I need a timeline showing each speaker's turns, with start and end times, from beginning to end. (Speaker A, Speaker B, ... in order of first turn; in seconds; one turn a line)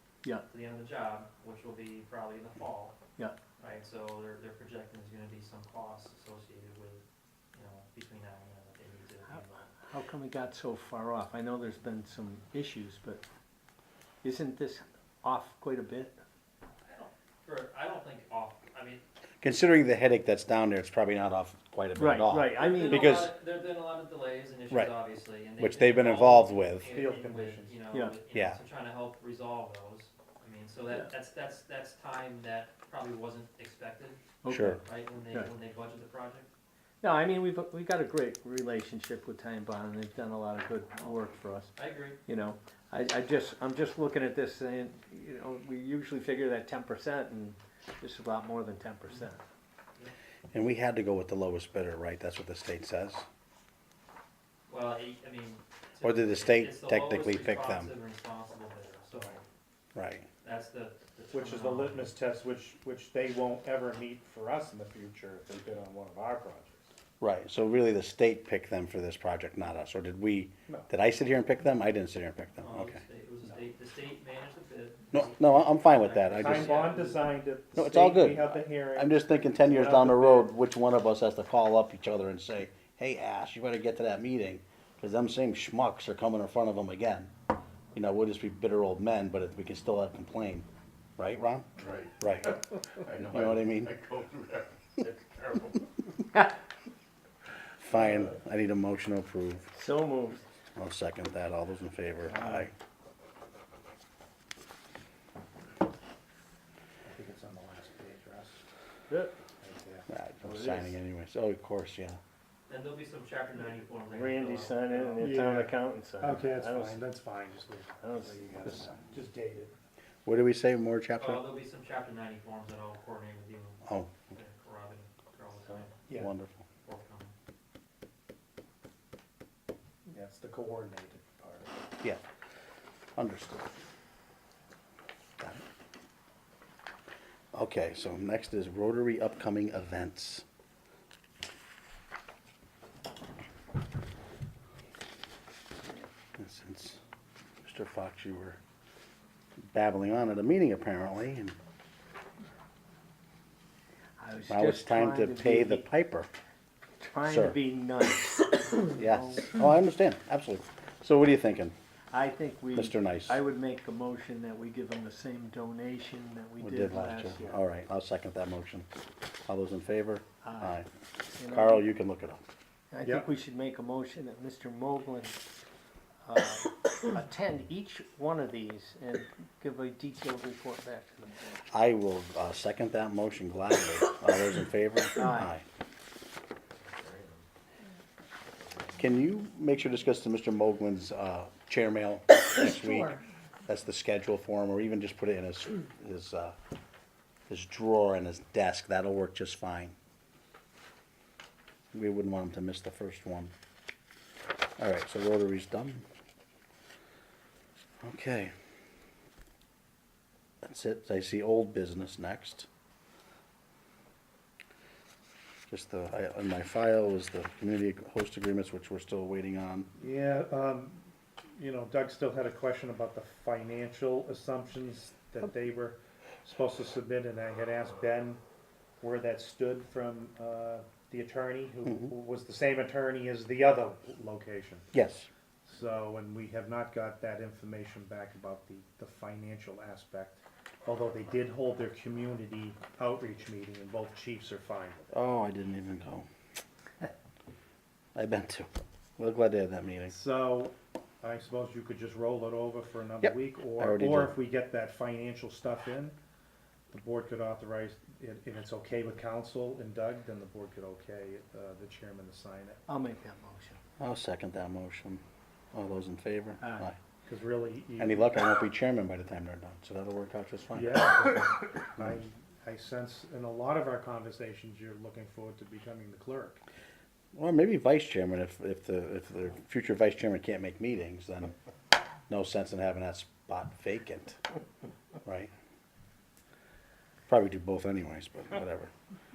Speaker A: 0.5-3.0
Speaker A: 3.6-7.0
Speaker A: 7.5-9.5
Speaker B: 9.3-13.2
Speaker B: 14.2-16.2
Speaker A: 16.9-19.0
Speaker C: 19.4-23.3
Speaker B: 22.0-23.1
Speaker A: 22.6-34.2
Speaker C: 24.7-24.9
Speaker C: 25.6-26.9
Speaker D: 26.8-27.8
Speaker C: 28.3-28.6
Speaker B: 34.4-35.5
Speaker C: 34.5-34.8
Speaker A: 34.8-36.5
Speaker B: 37.0-49.4
Speaker A: 41.8-42.2
Speaker C: 50.5-53.2
Speaker A: 54.7-59.4
Speaker C: 56.0-57.9
Speaker C: 60.0-60.3
Speaker A: 60.4-62.1
Speaker D: 61.3-66.9
Speaker C: 67.2-73.0
Speaker A: 72.6-77.3
Speaker C: 75.1-76.8
Speaker D: 76.4-80.5
Speaker C: 77.8-87.3
Speaker C: 87.9-90.7
Speaker C: 91.2-92.6
Speaker E: 93.0-95.8
Speaker C: 93.2-94.0
Speaker C: 97.8-99.7
Speaker B: 99.7-100.4
Speaker C: 100.8-102.7
Speaker B: 102.3-102.7
Speaker D: 107.0-108.6
Speaker B: 109.1-109.3
Speaker D: 109.6-110.1
Speaker C: 110.1-112.2
Speaker B: 110.4-111.0
Speaker A: 112.7-115.4
Speaker B: 114.1-117.0
Speaker D: 115.2-119.7
Speaker B: 118.0-118.9
Speaker C: 120.2-121.4
Speaker A: 121.2-126.0
Speaker C: 123.8-124.1
Speaker C: 126.2-126.6
Speaker A: 126.8-127.3
Speaker D: 130.1-131.9
Speaker C: 133.2-133.7
Speaker C: 135.4-135.6
Speaker C: 137.5-140.4
Speaker C: 146.4-147.0
Speaker C: 147.6-148.6
Speaker C: 149.7-151.6
Speaker B: 154.2-155.9
Speaker C: 154.5-156.3
Speaker B: 157.0-159.5
Speaker C: 157.3-157.6
Speaker C: 158.9-161.8
Speaker B: 162.1-167.6
Speaker C: 162.7-163.4
Speaker C: 166.6-168.9
Speaker C: 169.5-170.9
Speaker B: 170.4-170.8
Speaker B: 171.4-171.9
Speaker C: 171.4-172.4
Speaker B: 172.9-175.4
Speaker D: 173.0-173.3
Speaker B: 176.2-181.6
Speaker C: 181.7-185.6
Speaker B: 185.2-185.5
Speaker C: 189.0-196.6
Speaker C: 197.5-199.9
Speaker C: 201.9-203.5
Speaker C: 204.8-206.0
Speaker C: 208.0-208.5
Speaker C: 210.6-212.7
Speaker C: 215.7-219.9
Speaker D: 220.0-228.4
Speaker D: 229.0-234.9
Speaker C: 234.9-235.3
Speaker D: 235.7-245.1
Speaker C: 245.1-246.3
Speaker C: 248.2-250.2
Speaker D: 250.1-256.2
Speaker C: 253.2-254.4
Speaker D: 256.9-262.8
Speaker B: 262.9-263.8
Speaker C: 264.0-265.2
Speaker C: 265.7-267.0
Speaker B: 266.6-266.9
Speaker D: 267.2-268.3
Speaker C: 268.0-271.4
Speaker D: 270.7-276.6
Speaker C: 277.3-281.5
Speaker C: 282.3-284.4
Speaker C: 285.2-285.5
Speaker C: 287.3-288.9